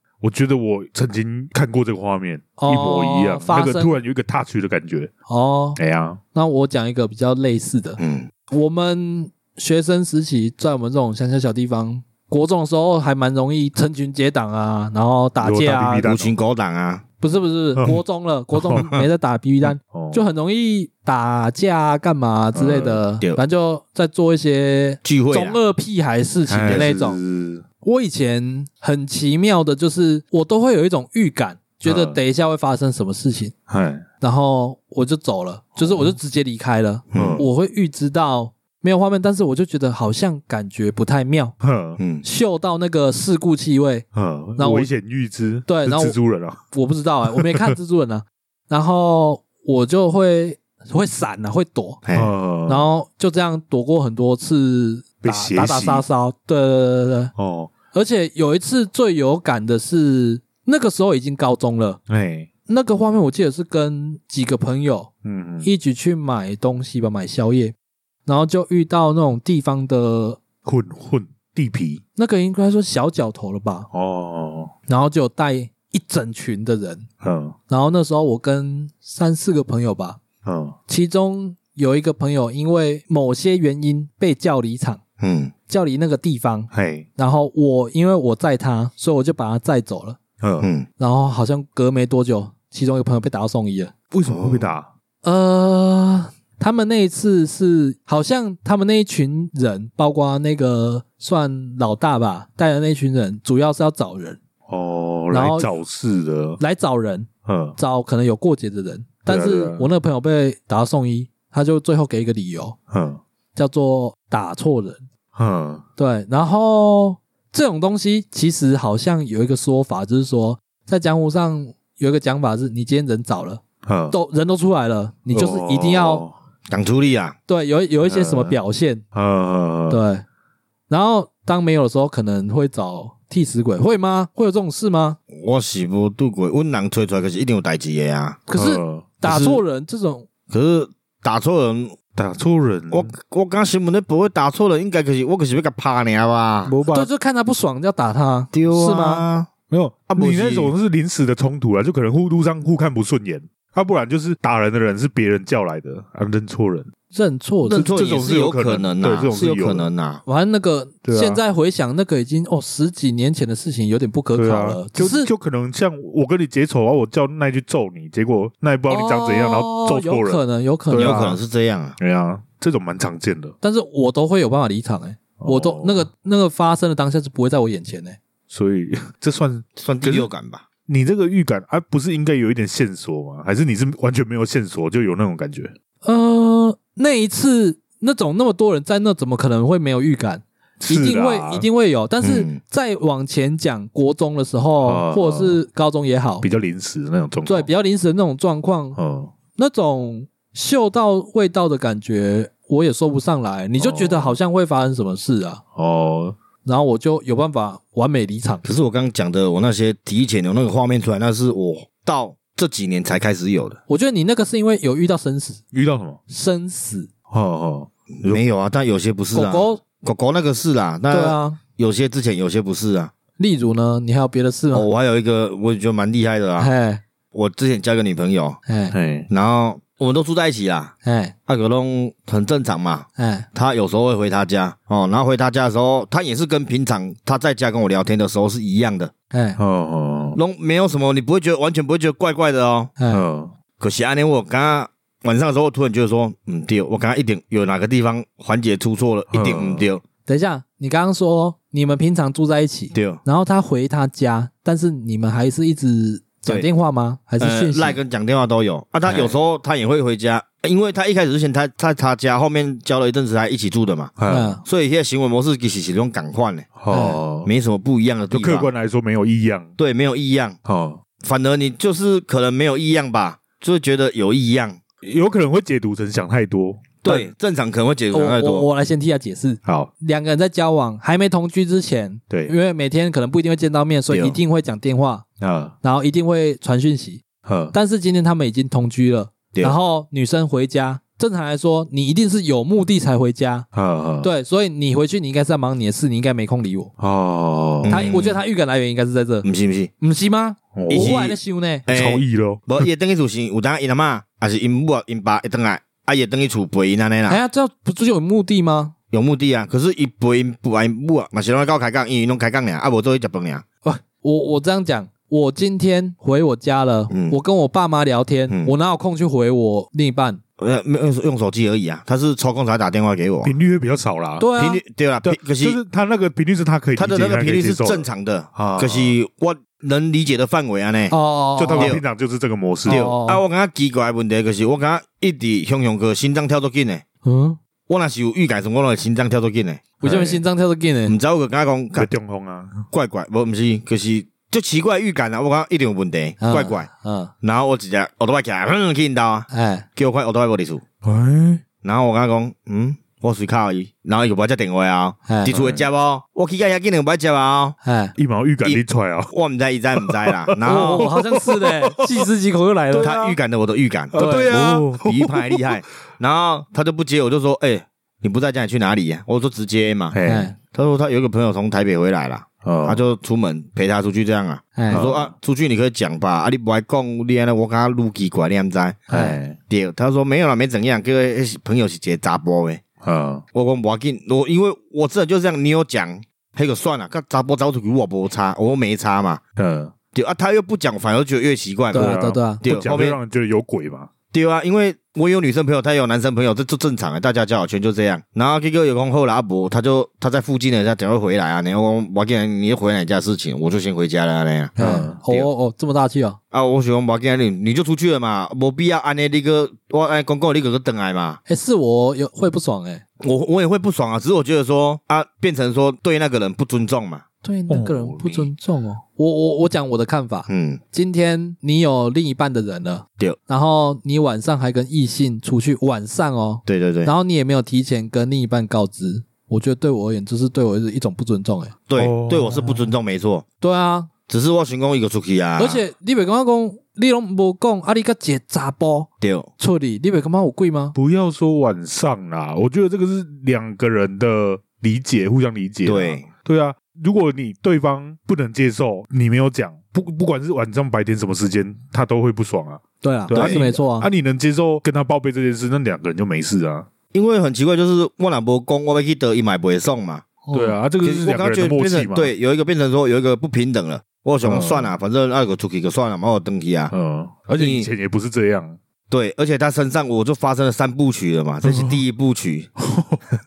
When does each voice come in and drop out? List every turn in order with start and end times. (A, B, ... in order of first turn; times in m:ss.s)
0:00.2-0:05.1 A
0:02.6-0:04.0 B
0:05.3-0:05.8 B
0:05.8-0:06.2 A
0:06.3-0:16.1 B
0:08.0-0:08.3 C
0:15.4-0:16.3 A
0:16.0-0:17.0 C
0:17.2-0:27.2 B
0:17.7-0:18.0 A
0:18.5-0:18.9 A
0:19.8-0:20.2 A
0:22.5-0:23.0 A
0:25.0-0:25.6 C
0:26.5-0:27.6 A
0:27.8-0:33.5 B
0:31.8-0:32.2 A
0:33.7-0:34.0 A
0:34.2-0:41.5 B
0:35.8-0:36.1 A
0:37.1-0:37.4 C
0:37.1-0:37.4 A
0:41.6-0:42.0 A
0:42.0-0:42.2 C
0:42.2-0:44.0 B
0:44.1-0:46.6 A
0:44.6-0:44.9 B
0:45.7-0:46.2 B
0:46.7-0:52.0 B
0:47.3-0:47.7 A
0:52.0-0:52.3 C
0:52.1-0:52.9 A
0:52.7-0:57.3 B
0:55.2-0:56.0 A
0:57.4-0:57.7 A
0:57.9-1:02.0 B
1:02.1-1:02.5 A
1:02.7-1:05.1 B
1:05.2-1:05.7 A
1:05.6-1:07.7 B
1:08.2-1:10.4 B
1:10.6-1:12.0 A
1:12.2-1:13.9 B
1:13.9-1:14.7 A
1:14.9-1:17.0 B
1:17.2-1:17.6 A
1:17.7-1:20.2 B
1:20.4-1:20.8 A
1:20.9-1:25.0 B
1:25.2-1:25.5 C
1:25.7-1:30.2 B
1:26.7-1:27.1 A
1:30.4-1:30.7 A
1:30.6-1:30.9 C
1:31.0-1:33.9 B
1:34.1-1:34.9 A
1:34.3-1:34.7 C
1:35.2-1:44.4 B
1:44.7-1:46.6 A
1:45.3-1:45.7 B
1:46.6-1:52.8 B
1:47.4-1:47.8 A
1:49.3-1:49.9 A
1:52.9-1:53.2 A
1:53.5-1:55.0 B
1:55.3-1:55.8 A
1:56.0-2:06.2 B
2:03.8-2:04.2 A
2:05.3-2:06.3 A
2:06.7-2:07.4 C
2:07.5-2:09.0 B
2:08.0-2:08.6 A
2:09.1-2:10.0 A
2:09.9-2:10.2 B
2:10.9-2:15.2 B
2:15.3-2:18.4 C
2:18.4-2:20.3 B
2:18.6-2:19.1 A
2:19.2-2:19.6 C
2:20.5-2:22.0 C
2:22.2-2:23.1 A
2:22.9-2:26.7 C
2:26.6-2:27.1 A
2:26.9-2:29.2 B
2:28.5-2:29.5 C
2:29.7-2:36.9 A
2:30.1-2:30.7 C
2:37.1-2:37.9 B
2:37.6-2:40.2 C
2:37.7-2:39.9 A
2:40.2-2:45.3 B
2:41.0-2:41.4 A
2:44.3-2:51.4 A
2:48.9-2:51.2 B
2:50.9-2:52.0 C
2:52.0-2:53.5 A
2:53.6-2:58.2 B
2:55.4-2:56.1 A
2:58.5-3:00.3 A
2:59.8-3:00.6 C
3:00.9-3:05.7 A
3:06.0-3:16.4 B
3:10.8-3:11.7 A
3:12.2-3:12.6 C
3:14.8-3:15.6 A
3:16.4-3:17.7 A
3:17.4-3:19.0 B
3:19.0-3:19.3 A
3:19.5-3:25.6 B
3:23.8-3:24.4 A
3:25.8-3:26.4 A
3:26.6-3:28.6 B
3:28.6-3:33.8 C
3:33.9-3:35.6 B
3:35.7-3:36.2 A
3:36.3-3:37.1 B
3:37.3-3:38.4 A
3:38.2-3:43.1 C
3:39.3-3:39.8 B
3:41.1-3:41.6 B
3:43.4-3:44.9 B
3:44.7-3:46.7 C
3:46.6-3:47.0 B
3:47.3-3:48.6 C
3:48.6-3:48.9 B
3:48.9-3:49.3 A
3:49.3-3:50.9 C
3:51.0-3:51.3 B
3:51.5-3:59.1 C
3:53.2-3:53.5 B
3:59.3-3:59.6 B
3:59.6-4:00.4 A
4:00.3-4:02.9 C
4:03.0-4:03.2 B
4:03.1-4:03.5 A
4:03.8-4:10.0 C
4:09.3-4:09.8 A
4:10.2-4:18.0 B
4:12.9-4:13.2 C
4:17.4-4:28.7 C
4:19.0-4:19.3 A
4:24.2-4:24.6 A
4:24.3-4:24.6 B
4:26.8-4:27.5 A
4:26.9-4:27.2 B
4:28.3-4:29.7 A
4:29.8-4:30.6 C
4:30.6-4:31.0 A
4:31.2-4:34.8 C
4:35.0-4:37.3 A
4:37.0-4:38.7 C
4:38.1-4:45.2 B
4:39.6-4:39.9 A
4:44.1-4:44.4 C
4:45.4-4:45.7 A
4:45.8-4:53.7 B
4:47.4-4:47.7 A
4:53.7-4:54.3 A
4:54.2-4:56.9 B
4:57.0-4:58.1 A
4:57.8-4:58.4 C
4:57.9-4:59.5 B
4:59.4-4:59.9 C
5:00.0-5:01.8 B
5:00.8-5:01.2 A
5:00.9-5:07.4 C
5:01.9-5:02.9 A
5:07.3-5:08.9 B
5:09.1-5:13.6 C
5:13.8-5:20.4 B
5:17.1-5:17.4 C
5:18.5-5:18.7 C
5:20.6-5:23.5 C
5:23.4-5:24.5 A
5:24.4-5:24.8 B
5:24.6-5:25.8 C
5:25.2-5:29.1 A
5:27.0-5:31.1 C
5:31.1-5:32.0 B
5:31.6-5:33.1 A
5:31.7-5:32.0 C
5:32.9-5:33.4 B
5:32.9-5:37.0 C
5:37.2-5:37.6 B
5:37.9-5:40.4 C
5:40.0-5:41.1 B
5:41.0-5:42.1 C
5:42.0-5:42.9 A
5:42.9-5:46.9 C
5:46.4-5:47.3 B
5:47.4-5:50.8 C
5:49.5-5:49.8 B
5:51.0-5:51.6 A
5:51.8-5:57.8 C
5:55.3-5:55.5 B
5:55.5-5:55.8 A
5:57.8-5:58.1 B
5:58.2-5:59.3 A
5:58.6-6:01.1 C
6:00.0-6:02.3 A
6:00.6-6:03.1 B
6:02.9-6:03.4 A
6:03.0-6:10.2 C
6:04.1-6:05.7 A
6:04.1-6:04.6 B
6:10.1-6:10.5 A
6:10.2-6:10.6 B
6:10.7-6:22.8 C
6:12.6-6:13.0 A
6:14.8-6:15.1 B
6:14.9-6:15.3 A
6:19.1-6:19.6 A
6:23.0-6:23.4 A
6:23.5-6:29.4 C
6:29.6-6:29.9 A
6:30.1-6:33.2 C
6:31.9-6:32.6 B
6:31.9-6:34.1 A
6:34.3-6:45.5 C
6:44.8-6:45.2 A
6:44.8-6:46.4 B
6:46.5-6:51.4 C
6:51.4-6:53.0 B
6:53.2-6:57.2 C
6:57.4-7:11.7 B
6:57.7-6:58.5 A
7:00.5-7:00.8 C
7:06.6-7:07.1 C
7:11.9-7:13.4 C
7:12.0-7:12.9 A
7:13.6-7:14.1 B
7:14.3-7:15.8 C
7:15.6-7:21.0 B
7:19.2-7:19.5 C
7:20.9-7:36.9 A
7:25.8-7:26.3 C
7:33.0-7:34.1 B
7:33.3-7:33.6 C
7:37.1-7:40.2 C
7:40.4-7:40.8 B
7:40.5-7:42.3 A
7:41.0-7:46.9 C
7:44.4-7:44.9 A
7:46.9-7:48.8 A
7:47.6-7:47.9 C
7:49.1-7:52.7 C
7:51.6-7:52.0 A
7:52.8-7:53.2 A